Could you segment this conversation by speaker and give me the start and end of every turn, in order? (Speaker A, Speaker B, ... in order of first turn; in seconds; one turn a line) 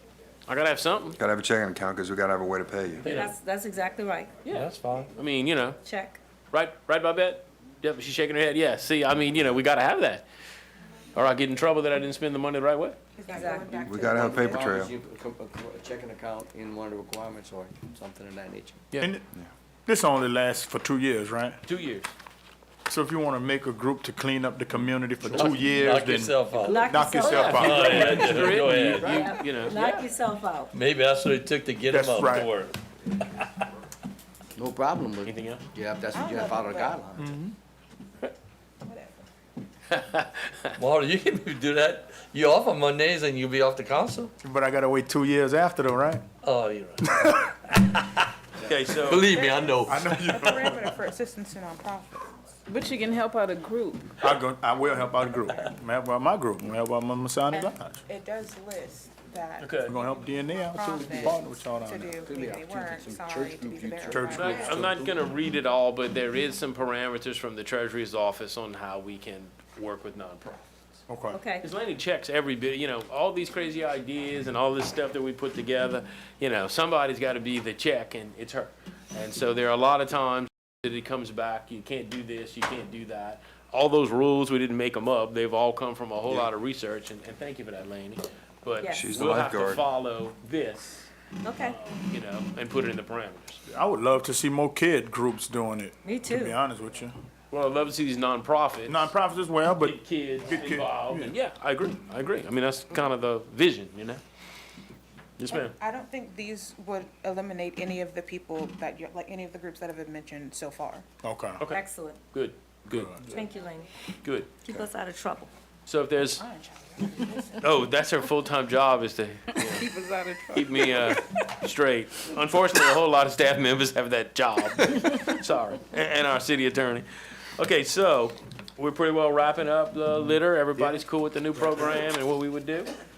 Speaker A: 0.5-1.2
Speaker B: 1.2-3.1
Speaker A: 3.0-3.3
Speaker C: 3.0-4.3
Speaker A: 4.4-5.8
Speaker D: 4.5-5.1
Speaker C: 5.8-6.2
Speaker A: 6.5-10.2
Speaker A: 11.1-13.0
Speaker E: 13.2-14.7
Speaker C: 13.3-13.8
Speaker F: 13.7-18.8
Speaker B: 13.8-14.9
Speaker G: 19.0-21.6
Speaker A: 21.6-22.1
Speaker G: 22.9-28.2
Speaker F: 25.2-25.6
Speaker D: 25.3-26.9
Speaker C: 26.6-27.6
Speaker A: 27.2-30.1
Speaker D: 27.4-29.3
Speaker F: 28.2-29.7
Speaker C: 29.1-30.7
Speaker D: 30.7-33.6
Speaker G: 31.9-32.5
Speaker F: 34.5-37.3
Speaker A: 35.2-35.6
Speaker E: 36.1-37.0
Speaker G: 37.2-37.5
Speaker E: 38.8-39.3
Speaker D: 40.8-44.3
Speaker G: 44.4-46.2
Speaker D: 46.4-48.3
Speaker A: 48.6-49.3
Speaker D: 48.9-50.7
Speaker E: 49.1-52.3
Speaker G: 49.9-50.7
Speaker H: 52.7-54.2
Speaker G: 54.2-58.0
Speaker E: 57.5-64.9
Speaker A: 59.6-60.0
Speaker G: 59.8-62.2
Speaker F: 61.0-61.4
Speaker F: 62.2-65.2
Speaker G: 64.1-64.8
Speaker A: 64.3-70.7
Speaker G: 71.1-71.4
Speaker C: 71.3-71.7
Speaker A: 71.6-93.6
Speaker C: 88.8-89.2
Speaker B: 88.9-89.8
Speaker C: 91.4-91.8
Speaker G: 93.7-97.1
Speaker C: 96.0-96.6
Speaker A: 97.5-99.1
Speaker G: 98.9-101.3
Speaker A: 99.8-104.2
Speaker A: 105.4-105.7
Speaker E: 105.5-111.0
Speaker G: 111.2-111.7
Speaker C: 111.7-112.2
Speaker A: 112.3-113.2
Speaker G: 112.9-113.3
Speaker C: 113.3-113.9
Speaker A: 114.2-114.5
Speaker C: 114.6-115.5
Speaker A: 115.8-116.4
Speaker E: 116.3-117.6
Speaker A: 117.6-119.9
Speaker H: 119.6-121.1
Speaker A: 120.5-132.9